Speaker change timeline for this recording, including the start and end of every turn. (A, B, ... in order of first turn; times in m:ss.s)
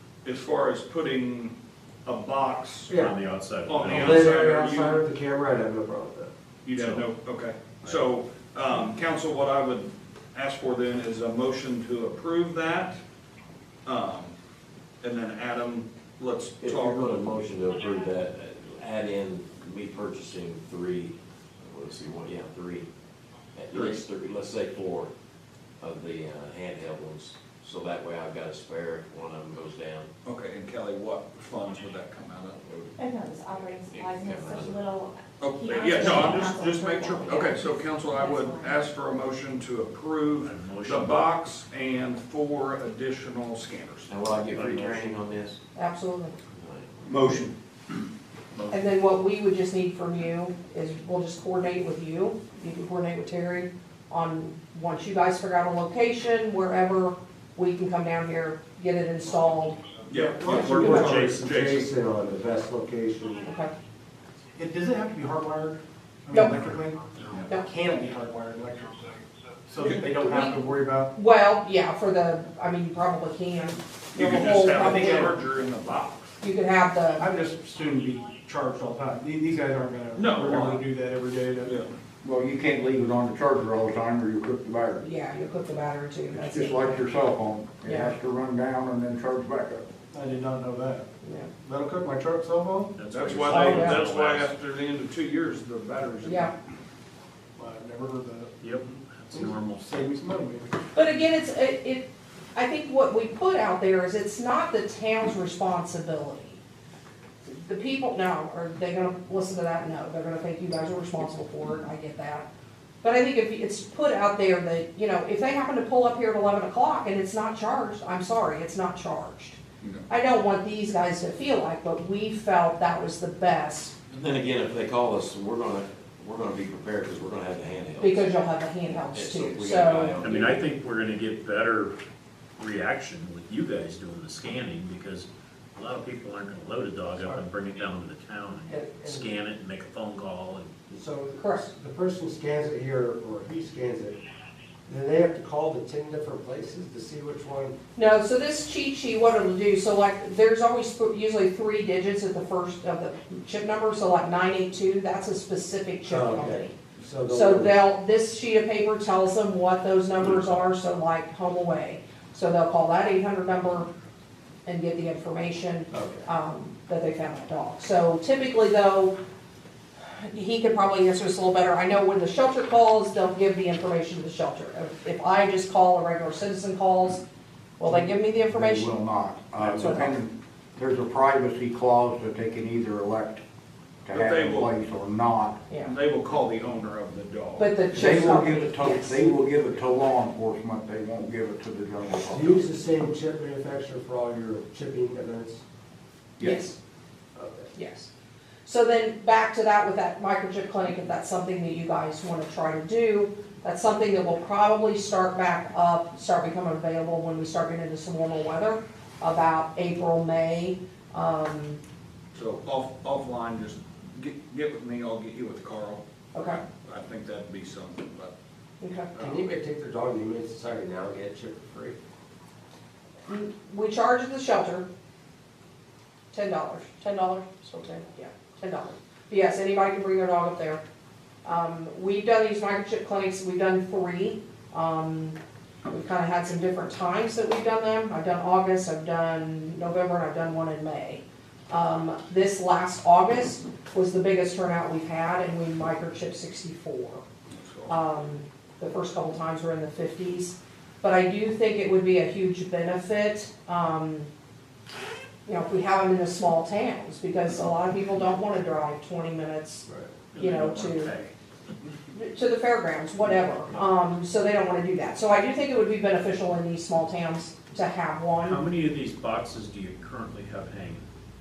0:00.2-0:03.0 A
0:02.9-0:03.1 B
0:03.0-0:04.4 C
0:03.7-0:05.0 A
0:03.9-0:06.3 B
0:06.7-0:13.0 A
0:06.7-0:07.0 C
0:13.9-0:14.4 A
0:15.0-0:17.2 A
0:16.6-0:22.9 D
0:23.6-0:25.1 D
0:23.7-0:24.0 A
0:25.8-0:30.1 D
0:30.2-0:32.6 A
0:32.6-0:32.9 D
0:33.0-0:38.8 E
0:33.5-0:34.8 D
0:35.4-0:44.6 A
0:37.1-0:37.9 D
0:40.4-0:41.2 C
0:44.1-0:45.6 D
0:44.5-0:45.0 C
0:45.8-0:46.3 F
0:46.5-0:47.5 D
0:47.1-0:47.5 A
0:48.7-0:59.8 F
1:00.1-1:01.9 A
1:00.2-1:00.6 G
1:00.4-1:03.4 B
1:00.6-1:01.4 C
1:00.6-1:01.1 F
1:03.4-1:03.7 F
1:04.6-1:09.2 G
1:09.7-1:11.1 G
1:09.8-1:10.6 F
1:11.1-1:15.3 F
1:14.2-1:16.4 A
1:14.7-1:15.4 G
1:16.4-1:17.2 F
1:17.2-1:21.7 G
1:20.2-1:20.8 A
1:21.7-1:21.9 A
1:22.2-1:25.0 H
1:25.0-1:27.1 F
1:26.3-1:29.9 H
1:27.8-1:28.2 F
1:30.1-1:31.1 G
1:31.2-1:31.5 F
1:31.6-1:33.0 G
1:33.0-1:34.5 C
1:33.1-1:36.5 A
1:33.5-1:34.0 F
1:36.2-1:36.5 F
1:37.6-1:38.6 G
1:38.6-1:40.1 C
1:39.3-1:40.8 G
1:41.0-1:46.6 F
1:47.4-1:52.5 F
1:53.0-2:03.9 F
2:04.1-2:08.3 D
2:08.0-2:10.6 F
2:09.1-2:10.6 D
2:10.2-2:12.0 C
2:12.6-2:20.7 C
2:18.7-2:19.3 B
2:20.9-2:24.2 B
2:21.4-2:21.7 F
2:24.9-2:27.8 B
2:28.0-2:36.7 F
2:36.1-2:37.8 B
2:37.3-2:43.9 F
2:44.7-2:49.2 F
2:45.9-2:46.3 B
2:50.1-2:57.2 F
2:57.8-2:58.9 F
2:57.9-3:03.4 H
2:59.8-3:00.1 F
3:04.0-3:05.6 H
3:04.1-3:04.7 A
3:05.8-3:07.8 A
3:07.6-3:09.4 F
3:07.9-3:12.7 H
3:12.2-3:15.6 B
3:16.4-3:16.7 H
3:16.4-3:16.8 F
3:17.4-3:17.7 B
3:17.8-3:18.1 F
3:18.6-3:31.8 F
3:32.3-3:36.0 A
3:36.3-3:36.6 F
3:36.6-3:38.3 A
3:38.8-3:39.1 F
3:39.2-3:39.5 A
3:39.2-3:42.0 B
3:43.3-3:44.9 F
3:46.3-3:50.8 F
3:51.4-3:55.4 F
3:55.9-4:07.2 F
4:07.5-4:08.0 A
4:07.9-4:14.3 F
4:15.5-4:21.1 F
4:20.3-4:21.3 C
4:22.1-4:28.6 F
4:28.4-4:31.0 C